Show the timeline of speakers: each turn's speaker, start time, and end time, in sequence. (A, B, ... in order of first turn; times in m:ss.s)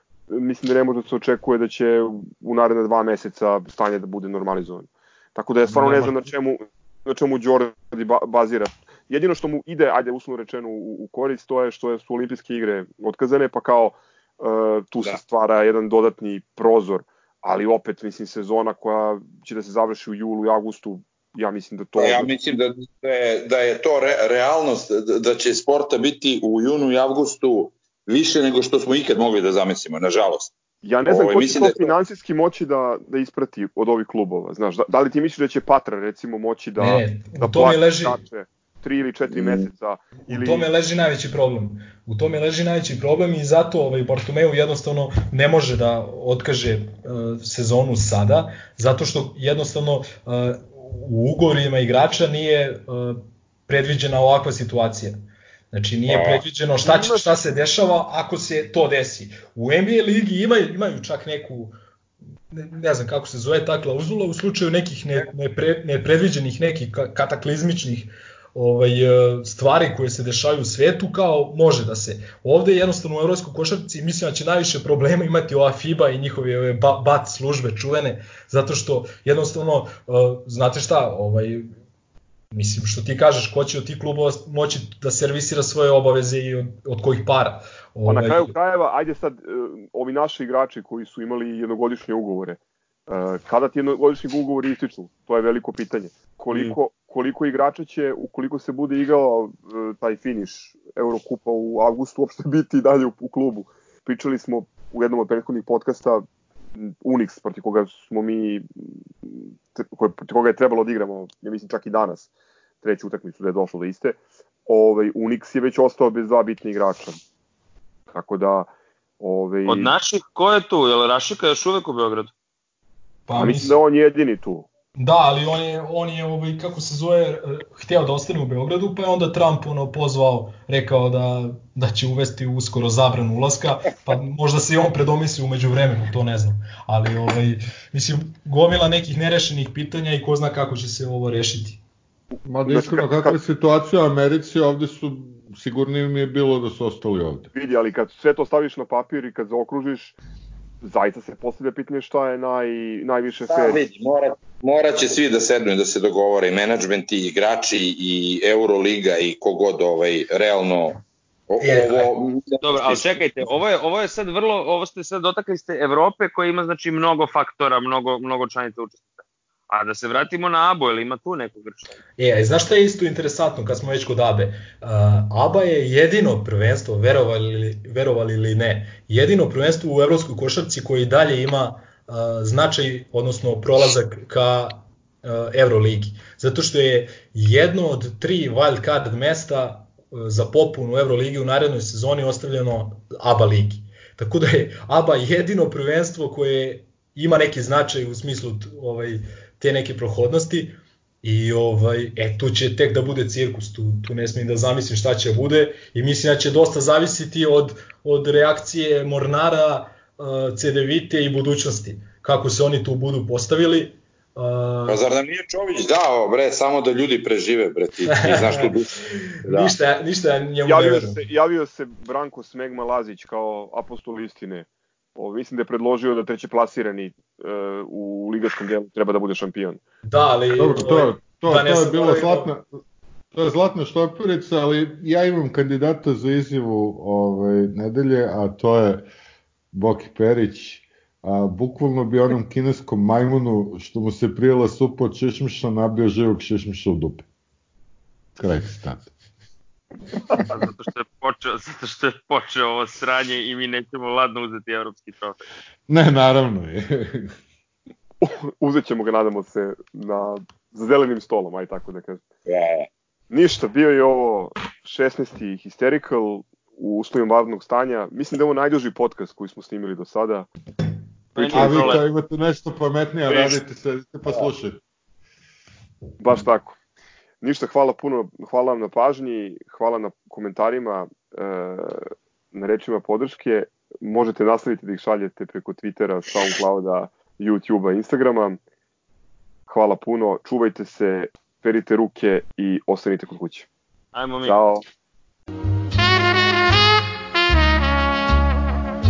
0:00.3-0:22.3 A
0:05.7-0:06.3 B
0:22.0-0:30.5 C
0:30.8-0:40.7 A
0:31.1-0:31.9 C
0:36.8-0:38.2 D
0:39.3-0:39.6 C
0:40.3-0:55.2 D
0:55.7-1:01.8 D
0:56.1-0:56.4 C
0:56.8-0:57.4 A
1:02.5-1:21.7 D
1:22.5-1:28.5 D
1:28.1-1:46.2 A
1:46.8-1:52.3 A
1:52.8-1:57.2 A
1:58.1-1:59.9 A
1:59.7-2:02.3 E
2:03.3-2:03.8 D
2:03.4-2:04.7 A
2:05.0-2:21.8 D
2:22.4-2:27.5 B
2:22.7-2:23.4 A
2:27.5-2:30.2 A
2:30.8-2:33.8 A
2:33.5-2:43.0 C
2:41.6-2:42.1 D
2:42.6-2:52.0 E
2:52.2-3:35.0 D
3:34.9-3:39.8 C
3:38.1-3:41.2 D
3:40.6-3:49.8 A
3:50.0-3:52.5 D
3:50.6-3:52.7 B
3:53.3-3:59.1 B
3:59.7-4:07.2 B
4:08.4-4:09.1 B
4:10.4-4:15.4 E
4:15.9-4:17.3 B
4:18.2-4:22.2 A
4:22.5-4:22.9 C
4:23.3-4:30.5 A
4:31.4-4:32.0 A
4:31.4-4:32.0 E
4:31.5-4:34.8 B
4:33.3-4:33.6 A
4:36.2-4:36.8 A
4:37.4-4:48.6 A
4:49.7-4:53.7 A
4:54.1-4:54.6 E
4:54.4-4:54.8 A